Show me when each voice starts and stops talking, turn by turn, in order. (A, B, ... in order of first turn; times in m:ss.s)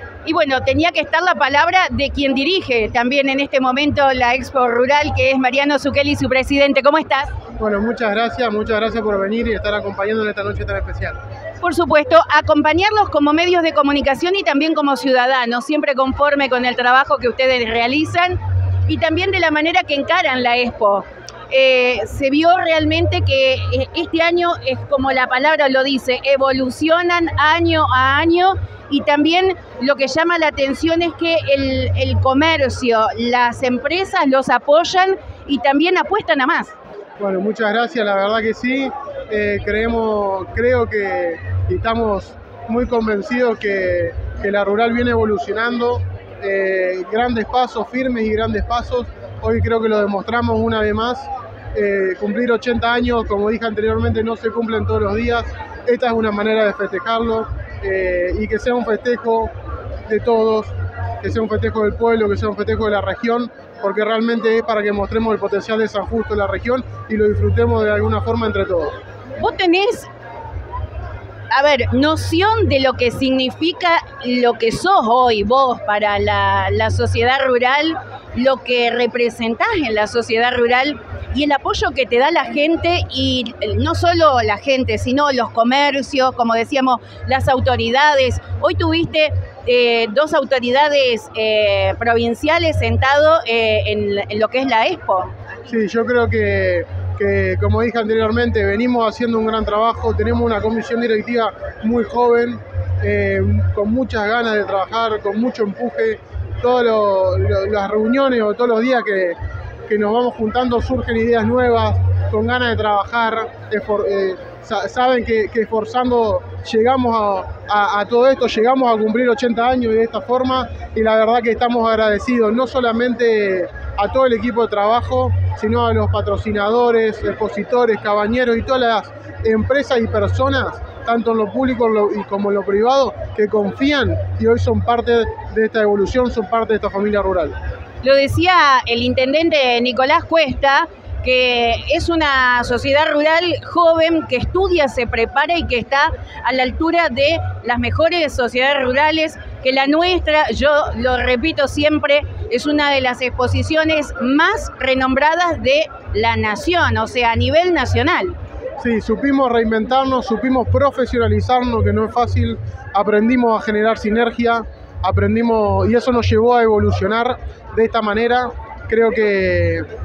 0:00.2-0:07.3 A
0:07.6-0:11.2 B
0:11.6-0:36.7 A
0:37.2-0:59.5 B
1:00.1-1:09.0 B
1:09.4-1:10.1 A
1:11.5-1:35.3 A
1:35.7-2:17.6 B
2:18.0-2:38.4 A
2:38.8-2:49.8 B